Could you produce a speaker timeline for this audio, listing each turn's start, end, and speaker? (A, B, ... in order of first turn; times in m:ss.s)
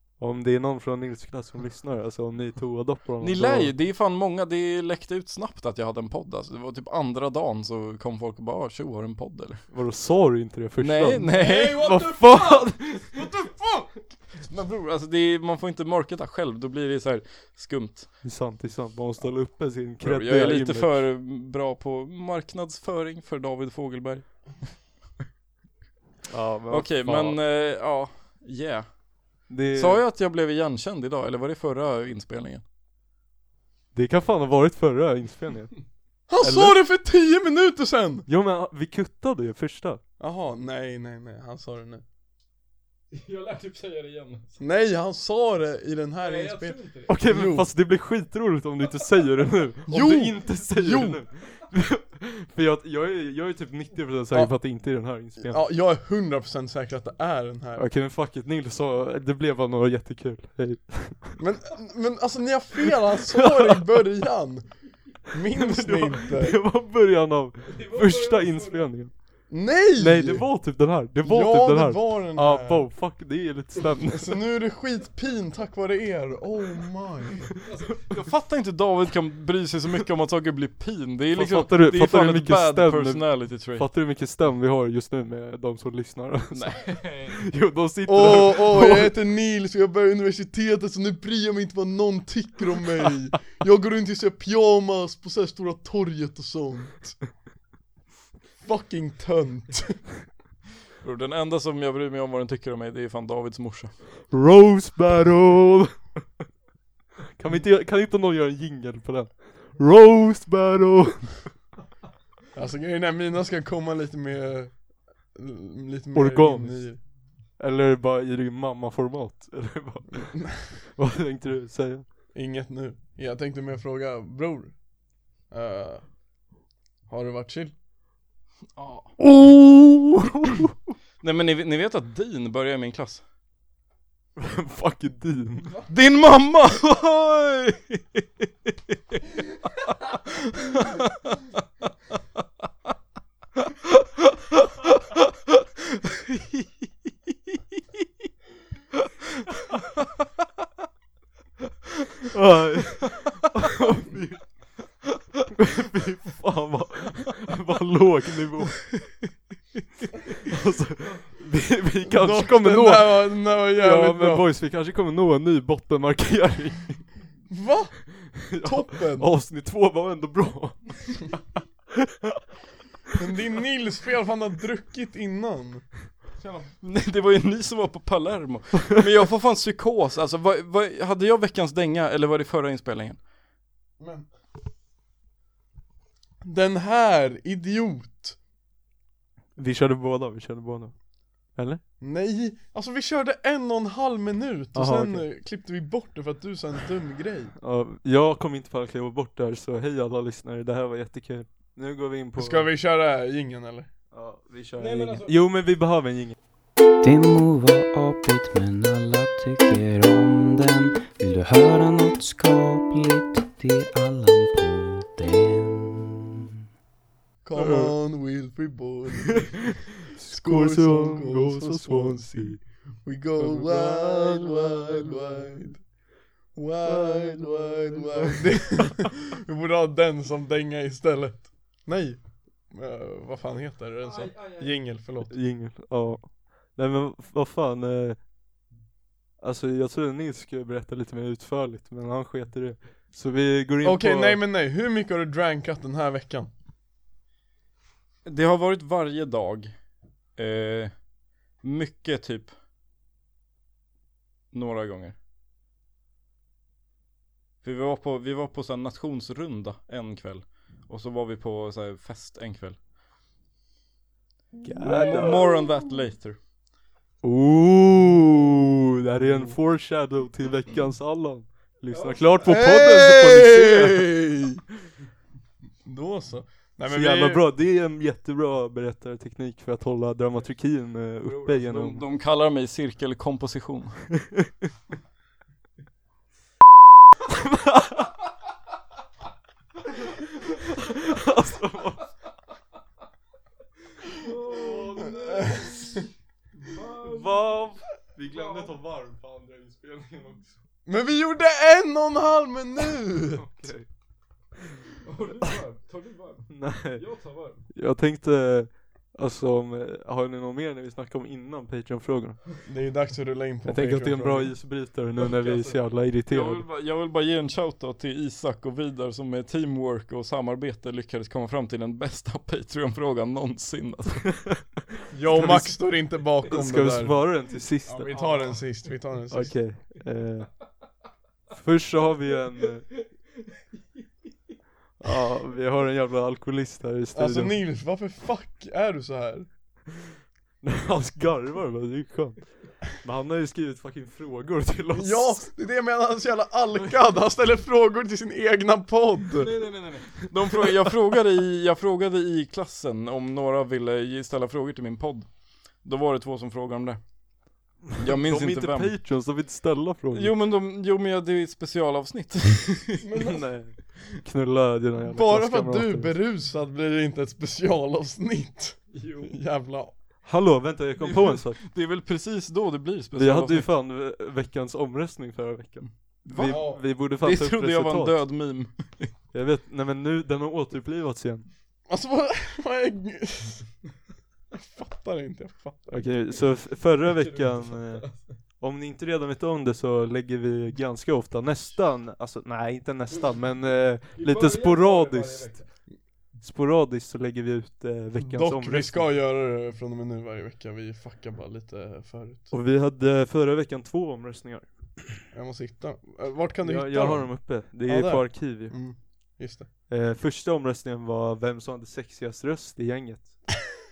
0:00.2-0:03.7 A
0:03.2-0:09.6 B
0:09.7-0:13.2 A
0:10.8-0:11.9 B
0:11.4-0:13.9 C
0:14.4-0:18.2 B
0:18.2-0:21.0 A
0:20.0-0:24.5 B
0:26.3-0:27.4 A
0:26.7-0:28.9 B
0:29.5-0:30.0 A
0:29.7-0:32.6 B
0:33.9-0:35.7 A
0:36.3-0:38.3 D
0:36.4-0:36.8 A
0:38.3-0:40.0 A
0:40.2-0:42.0 D
0:43.1-0:44.6 C
0:44.6-0:47.7 D
0:46.2-0:47.2 C
0:47.1-0:55.6 A
0:49.9-0:51.2 D
0:55.4-0:57.8 D
0:57.8-1:01.4 A
1:01.4-1:04.7 D
1:02.8-1:04.2 A
1:05.3-1:06.6 D
1:05.4-1:09.1 A
1:07.7-1:08.9 C
1:09.5-1:10.5 D
1:10.0-1:14.4 A
1:11.2-1:12.9 D
1:14.1-1:17.5 D
1:17.6-1:18.2 C
1:18.1-1:23.8 B
1:21.3-1:29.1 A
1:26.5-1:27.0 B
1:26.8-1:27.4 C
1:28.1-1:37.2 D
1:38.6-1:40.0 D
1:41.0-1:43.9 B
1:44.3-1:46.1 A
1:47.4-1:51.5 A
1:52.5-1:54.8 D
1:55.3-1:57.0 D
1:56.1-1:56.9 A
1:57.6-2:02.0 A
2:02.3-2:04.8 D
2:05.5-2:06.0 D
2:07.1-2:07.7 D
2:08.8-2:09.1 B
2:09.2-2:10.7 A
2:11.2-2:13.2 B
2:14.4-2:15.7 A
2:15.9-2:19.2 B
2:20.2-2:21.4 B
2:23.8-2:25.2 B
2:25.9-2:26.6 B
2:32.3-2:34.5 A
2:35.5-2:38.9 A
2:40.4-2:47.0 A
2:42.1-2:44.5 D
2:47.5-2:49.3 D
2:48.4-2:51.4 A
2:52.0-2:52.4 A
2:53.1-2:55.8 D
2:56.8-3:03.2 B
3:04.0-3:04.3 D
3:06.4-3:08.4 D
3:09.6-3:10.9 A
3:11.5-3:11.8 A
3:12.0-3:17.5 D
3:14.7-3:15.2 A
3:17.6-3:22.7 A
3:22.4-3:23.9 D
3:24.1-3:26.3 A
3:24.8-3:25.4 C
3:27.0-3:36.5 E
3:37.4-3:39.7 D
3:37.5-3:37.9 A
3:39.3-3:42.6 A
3:40.3-3:45.8 D
3:43.4-3:45.6 A
3:46.5-3:55.3 D
3:46.8-3:49.1 A
3:54.0-3:54.8 C
3:55.3-3:58.2 A
3:59.4-4:04.4 A
4:03.8-4:06.5 D
4:08.2-4:09.8 B
4:10.4-4:10.9 B
4:11.6-4:12.5 B
4:14.5-4:15.2 B
4:17.6-4:22.8 B
4:24.6-4:25.4 A
4:24.6-4:25.5 D
4:24.8-4:26.4 B
4:27.2-4:34.1 A
4:31.9-4:32.4 C
4:32.4-4:34.6 D
4:35.8-4:37.4 D
4:36.9-4:42.0 A
4:41.4-4:44.0 B
4:44.2-4:44.5 A
4:47.3-4:48.1 A
4:50.0-4:52.1 A
4:54.2-4:56.1 C
4:54.4-4:55.7 A
4:55.2-4:56.0 D
4:56.6-4:57.7 C
4:57.0-5:00.5 A
4:58.2-4:58.7 C
5:00.8-5:03.7 D
5:03.4-5:03.9 A
5:05.0-5:07.7 C
5:06.5-5:07.0 A
5:07.7-5:12.4 A
5:12.6-5:14.5 D
5:13.7-5:16.6 A
5:15.2-5:15.8 C
5:16.3-5:24.4 B
5:25.1-5:27.2 D
5:25.3-5:25.8 A
5:26.5-5:28.2 A
5:27.8-5:28.9 C
5:28.1-5:29.6 D
5:29.3-5:30.5 A
5:31.5-5:32.8 A
5:35.0-5:37.6 A
5:37.1-5:39.5 D
5:40.6-5:45.4 A
5:44.9-5:49.6 D
5:49.3-5:50.2 C
5:50.2-5:55.3 B
5:55.8-5:57.0 B
5:58.0-5:58.9 B
5:58.0-6:00.3 A
6:00.1-6:03.0 B
6:03.0-6:03.4 D
6:03.1-6:06.2 A
6:05.1-6:09.9 D
6:08.9-6:09.3 C
6:10.2-6:11.6 A
6:11.0-6:13.7 B
6:13.2-6:18.2 A
6:16.3-6:19.1 B
6:16.5-6:16.8 D
6:19.3-6:21.5 A
6:21.9-6:23.7 D
6:24.6-6:26.1 D
6:25.9-6:35.6 A
6:27.0-6:28.4 C
6:34.0-6:35.7 C
6:36.4-6:39.1 A
6:38.2-6:42.5 D
6:42.5-6:45.1 A
6:45.3-6:49.7 D
6:46.6-6:48.7 A
6:49.9-6:53.4 A